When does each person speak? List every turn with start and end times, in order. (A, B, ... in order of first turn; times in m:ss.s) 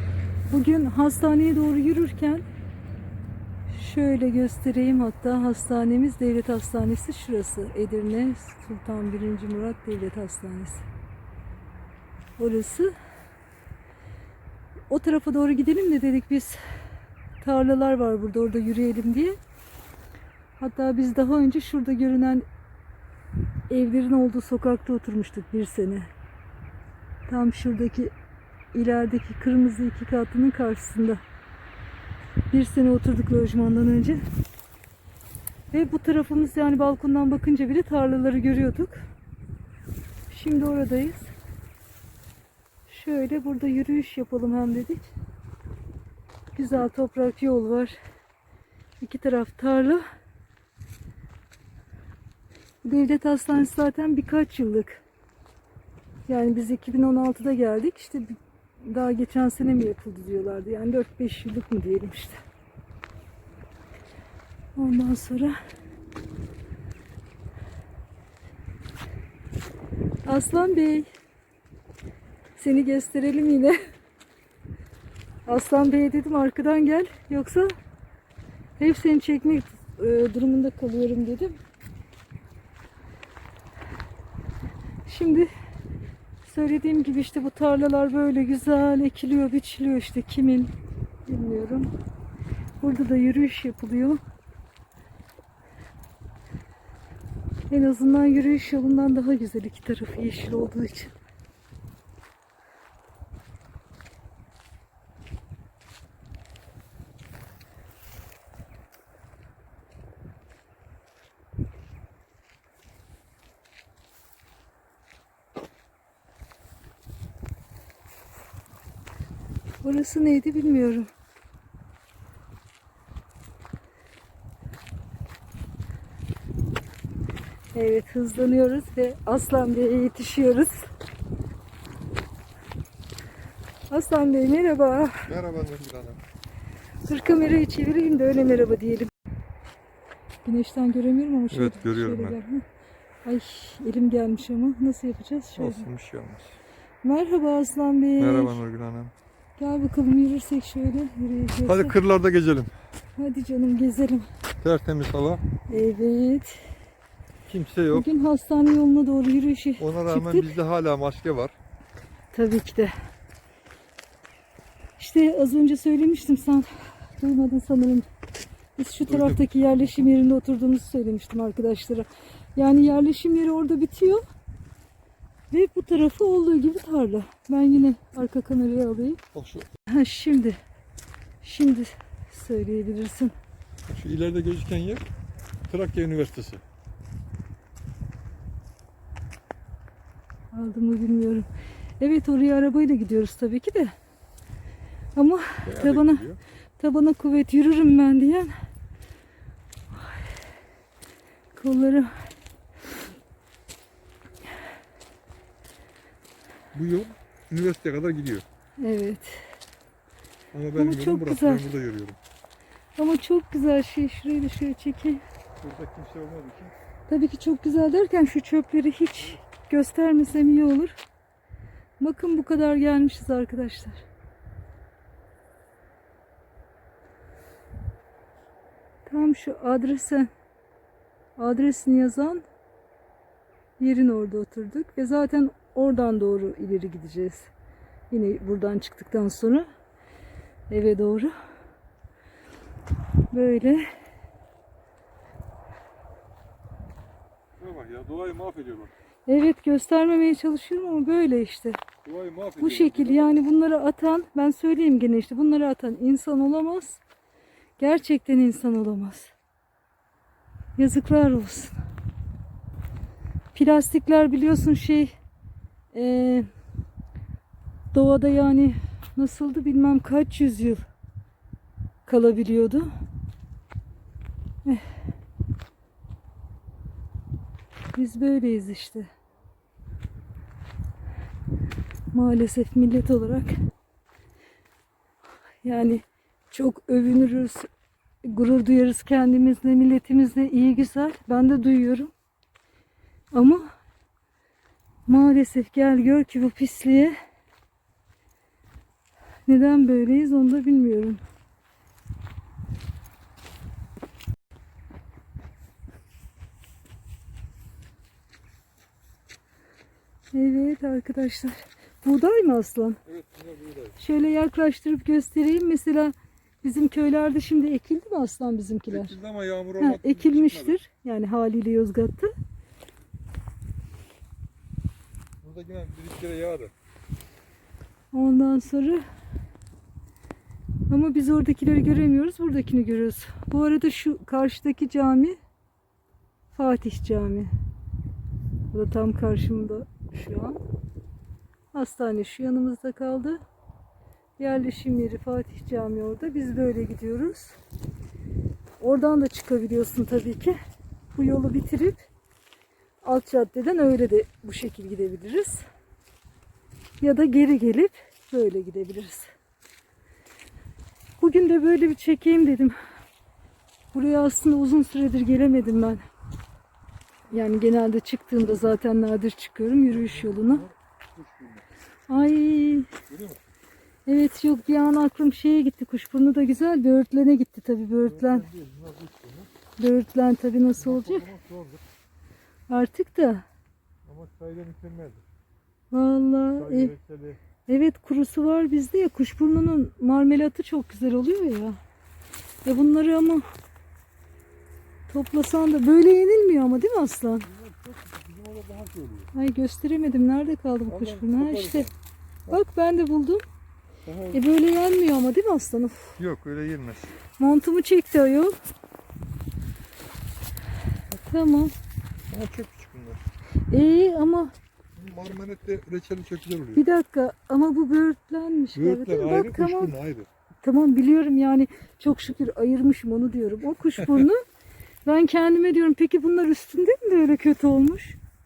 0:00.5-0:02.4 A
0:03.7-0:10.8 A
0:12.4-0:12.9 A
0:14.9-0:16.6 A
0:17.4-0:19.4 A
0:20.6-0:22.4 A
0:23.7-0:26.1 A
0:27.3-0:28.1 A
0:28.7-0:31.2 A
0:32.5-0:34.2 A
0:35.7-0:39.0 A
0:40.3-0:41.3 A
0:42.9-0:45.1 A
0:46.6-0:48.0 A
0:49.0-0:50.0 A
0:52.8-0:55.0 A
0:56.3-1:02.4 A
1:04.8-1:05.6 A
1:10.3-1:11.1 A
1:12.6-1:13.8 A
1:15.5-1:17.7 A
1:18.8-1:21.6 A
1:25.0-1:25.5 A
1:26.4-1:30.7 A
1:31.3-1:31.9 A
1:32.8-1:34.2 A
1:37.7-1:41.2 A
1:59.8-2:01.1 A
2:07.7-2:10.9 A
2:13.9-2:15.3 A
2:15.2-2:16.2 B
2:17.1-2:19.1 A
2:20.4-2:22.6 A
2:21.5-2:22.4 B
2:23.2-2:25.9 A
2:25.6-2:26.6 B
2:27.0-2:28.6 A
2:28.2-2:29.1 B
2:29.6-2:32.0 A
2:31.7-2:32.7 B
2:33.2-2:34.3 A
2:34.6-2:35.4 B
2:35.7-2:36.6 A
2:37.5-2:38.1 B
2:37.9-2:40.5 A
2:39.8-2:41.6 B
2:42.3-2:42.9 A
2:45.0-2:48.1 A
2:48.8-2:54.2 A
2:49.1-2:49.4 B
2:55.5-2:59.2 A
2:59.3-2:59.7 B
2:59.9-3:00.6 A
3:01.4-3:03.3 A
3:03.9-3:05.1 B
3:05.7-3:06.6 B
3:10.5-3:11.5 A
3:12.0-3:13.9 A
3:15.2-3:16.2 A
3:15.6-3:16.4 B
3:16.8-3:18.5 A
3:19.9-3:20.3 A
3:21.5-3:22.1 A
3:26.7-3:28.4 B
3:28.8-3:29.5 A
3:30.5-3:32.2 B
3:30.8-3:31.6 A
3:33.0-3:35.2 A
3:35.6-3:36.7 B
3:37.1-3:40.9 A
3:42.0-3:44.0 A
3:49.1-3:50.3 A
3:51.4-3:52.4 A
3:53.8-3:57.5 A
3:58.1-3:59.7 A
4:00.7-4:01.3 A
4:03.3-4:03.8 A
4:07.6-4:08.9 B
4:09.3-4:11.8 A
4:12.0-4:13.4 B
4:12.6-4:17.0 A
4:17.8-4:19.3 A
4:20.8-4:21.8 A
4:23.5-4:25.1 A
4:25.9-4:26.5 A
4:27.9-4:30.8 A
4:32.1-4:32.9 A
4:37.9-4:39.1 A
4:42.1-4:43.5 A
4:45.6-4:47.7 A
4:48.2-4:52.1 A
4:53.3-4:53.7 A
4:55.1-4:57.2 A
4:59.5-5:01.2 A
5:10.3-5:13.0 A
5:13.1-5:14.0 B
5:14.0-5:19.2 A
5:18.9-5:20.8 B
5:19.8-5:22.3 A
5:25.4-5:26.7 B
5:28.1-5:29.0 A
5:30.9-5:35.4 A
5:36.5-5:37.5 A
5:38.7-5:40.6 A
5:41.7-5:43.4 A
5:44.4-5:47.6 A
5:48.8-5:50.6 A
5:51.1-5:52.1 A
5:53.0-5:55.6 A
5:57.0-5:59.3 A
6:01.2-6:02.8 A
6:03.9-6:06.0 A
6:07.3-6:10.6 A
6:09.9-6:11.6 B
6:12.1-6:12.9 A
6:13.1-6:13.4 B
6:14.1-6:18.4 A
6:18.0-6:19.5 B
6:19.8-6:21.3 A
6:20.8-6:21.8 B
6:22.7-6:23.4 A
6:24.0-6:25.2 B
6:25.9-6:26.9 A
6:26.6-6:27.4 B
6:27.7-6:31.8 A
6:32.6-6:33.4 A
6:35.1-6:37.5 A
6:37.5-6:39.3 B
6:39.3-6:41.9 A
6:40.9-6:41.9 B
6:42.5-6:43.4 A
6:44.0-6:44.4 B
6:44.3-6:46.2 A
6:46.2-6:47.2 B
6:47.4-6:48.6 A
6:51.1-6:51.7 A
6:52.3-6:53.2 B
6:53.7-6:54.5 A
6:55.0-6:56.8 B
6:56.8-6:59.9 A
6:58.7-7:00.3 B
7:00.6-7:04.4 A
7:04.0-7:04.3 B
7:05.1-7:08.2 A